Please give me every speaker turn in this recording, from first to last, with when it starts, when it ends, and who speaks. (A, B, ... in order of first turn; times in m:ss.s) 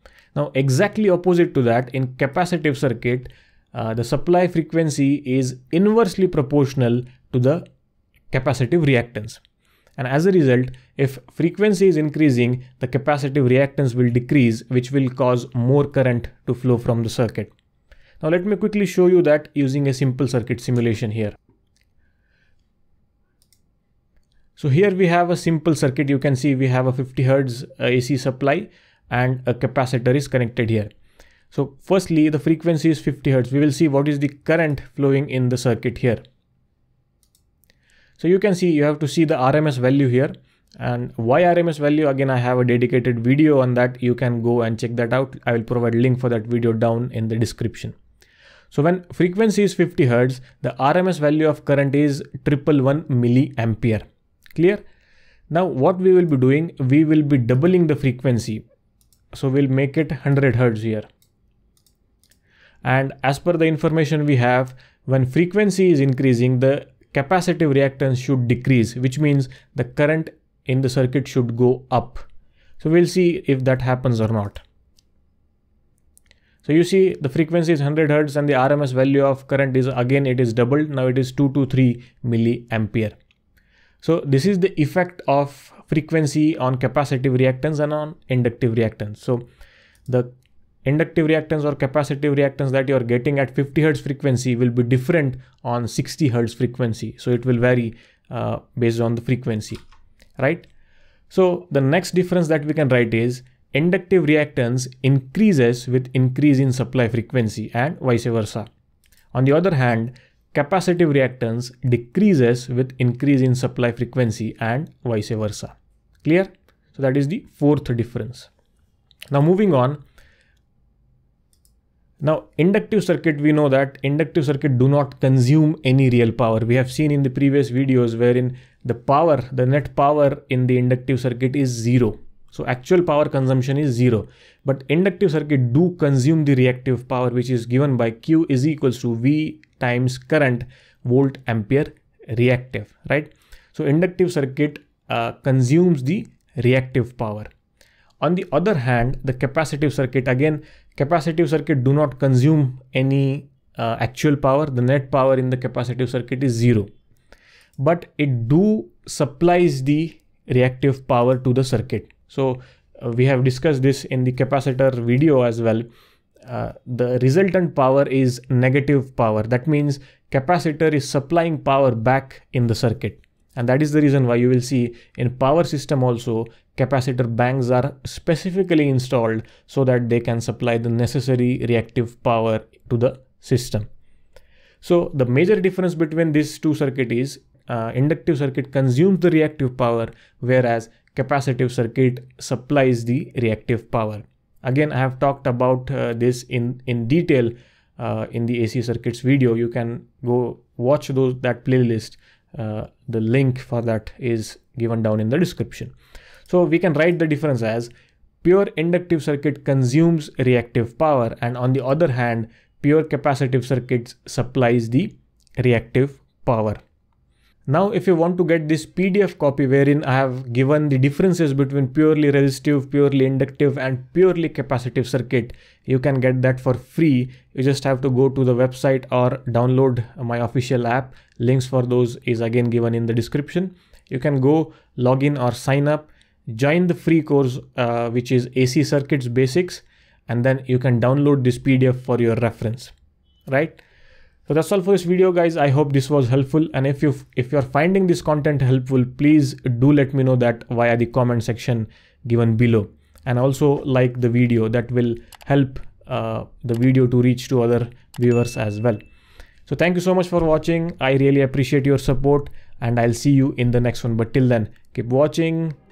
0:00.3-0:07.6 A
0:08.3-0:09.4 A
0:10.0-0:17.5 A
0:18.2-0:21.3 A
0:24.6-0:30.9 A
0:31.5-0:36.2 A
0:38.2-0:47.9 A
0:48.7-0:54.8 A
0:55.5-0:58.6 A
0:59.3-1:01.0 A
1:02.8-1:12.2 A
1:12.8-1:14.6 A
1:16.6-1:23.1 A
1:24.0-1:29.4 A
1:30.1-1:30.3 A
1:30.8-1:39.8 A
1:40.4-1:40.7 A
1:41.3-1:48.7 A
1:49.3-1:58.5 A
1:59.3-2:00.0 A
2:02.2-2:27.5 A
2:28.2-2:36.9 A
2:37.8-2:45.9 A
2:46.4-3:03.9 A
3:04.8-3:25.9 A
3:26.5-3:27.9 A
3:28.4-3:36.8 A
3:37.7-4:02.9 A
4:03.5-4:03.8 A
4:04.5-4:19.0 A
4:19.6-4:25.8 A